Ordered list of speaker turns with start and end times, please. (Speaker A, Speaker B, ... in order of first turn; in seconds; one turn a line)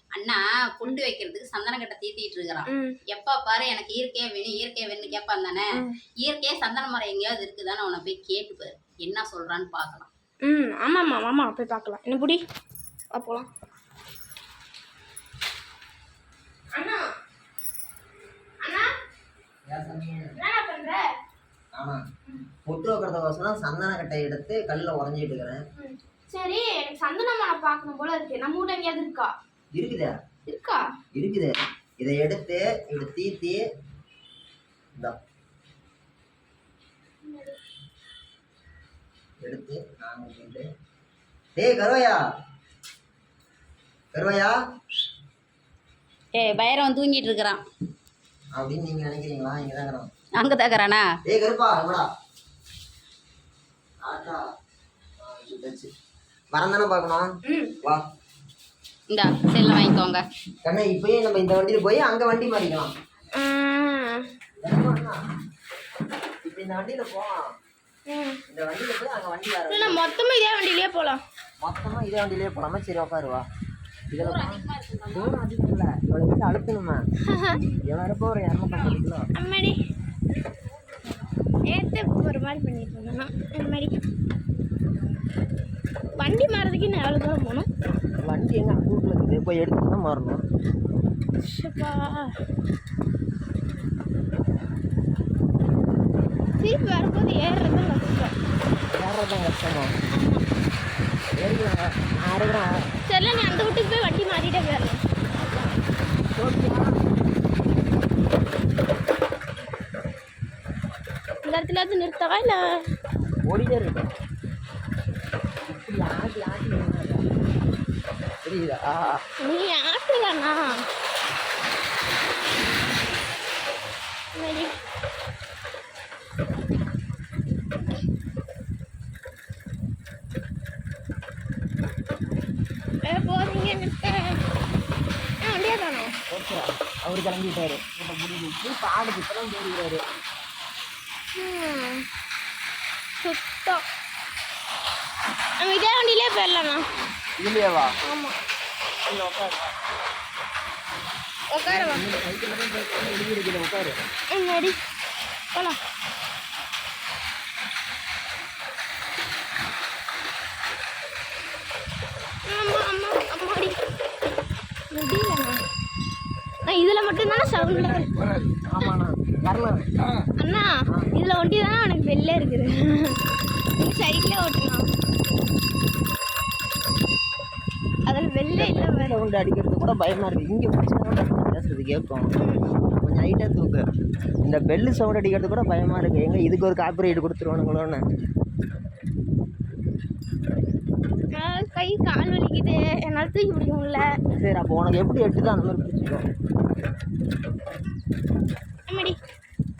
Speaker A: 0.1-10.1
Speaker B: 2.7-3.0
Speaker B: 10.4-12.4
Speaker B: 13.1-13.5
Speaker B: 16.7-17.1
Speaker B: 18.6-18.9
Speaker C: 19.7-20.4
Speaker B: 20.4-21.1
Speaker C: 21.7-22.0
Speaker C: 22.6-25.6
Speaker B: 25.8-29.3
Speaker C: 29.7-30.1
Speaker B: 30.5-30.8
Speaker C: 31.1-33.6
Speaker B: 37.2-37.6
Speaker C: 39.4-40.6
Speaker C: 41.6-42.2
Speaker C: 44.1-44.5
Speaker A: 46.3-47.6
Speaker C: 48.5-50.1
Speaker A: 50.4-51.0
Speaker C: 51.2-52.1
Speaker C: 54.0-54.4
Speaker C: 55.2-55.9
Speaker C: 56.5-57.2
Speaker B: 57.5-57.7
Speaker A: 59.1-60.2
Speaker C: 60.6-62.9
Speaker B: 63.3-64.3
Speaker C: 64.6-65.2
Speaker C: 66.4-67.4
Speaker B: 68.1-68.4
Speaker C: 68.5-70.0
Speaker B: 69.7-71.2
Speaker C: 71.6-73.4
Speaker C: 74.1-77.0
Speaker A: 74.2-75.3
Speaker B: 77.3-77.8
Speaker C: 77.8-79.3
Speaker B: 79.3-79.8
Speaker B: 81.7-84.0
Speaker B: 86.2-87.7
Speaker C: 88.2-90.4
Speaker B: 91.4-92.3
Speaker B: 96.6-98.3
Speaker C: 98.9-99.9
Speaker B: 100.1-100.4
Speaker C: 101.4-102.8
Speaker B: 103.0-105.0
Speaker C: 105.3-105.8
Speaker C: 106.3-107.0
Speaker B: 111.4-112.6
Speaker C: 113.5-114.1
Speaker C: 115.7-117.2
Speaker C: 118.4-119.2
Speaker B: 119.4-120.8
Speaker B: 124.3-124.7
Speaker B: 133.1-134.4
Speaker B: 135.4-136.1
Speaker C: 136.3-140.0
Speaker B: 141.3-142.1
Speaker B: 143.2-143.8
Speaker B: 145.6-146.8
Speaker C: 147.4-147.9
Speaker B: 148.1-148.3
Speaker C: 149.1-149.7
Speaker B: 151.5-152.1
Speaker C: 151.7-153.9
Speaker B: 154.3-154.8
Speaker B: 162.5-163.8
Speaker B: 164.9-165.6
Speaker B: 166.6-168.2
Speaker C: 168.7-169.9
Speaker B: 170.4-173.2
Speaker B: 173.8-174.9
Speaker B: 178.1-179.2
Speaker C: 178.5-182.3
Speaker B: 182.4-182.7
Speaker C: 183.0-183.8
Speaker C: 184.4-188.0
Speaker B: 191.3-194.0
Speaker C: 194.4-196.2
Speaker B: 198.9-199.2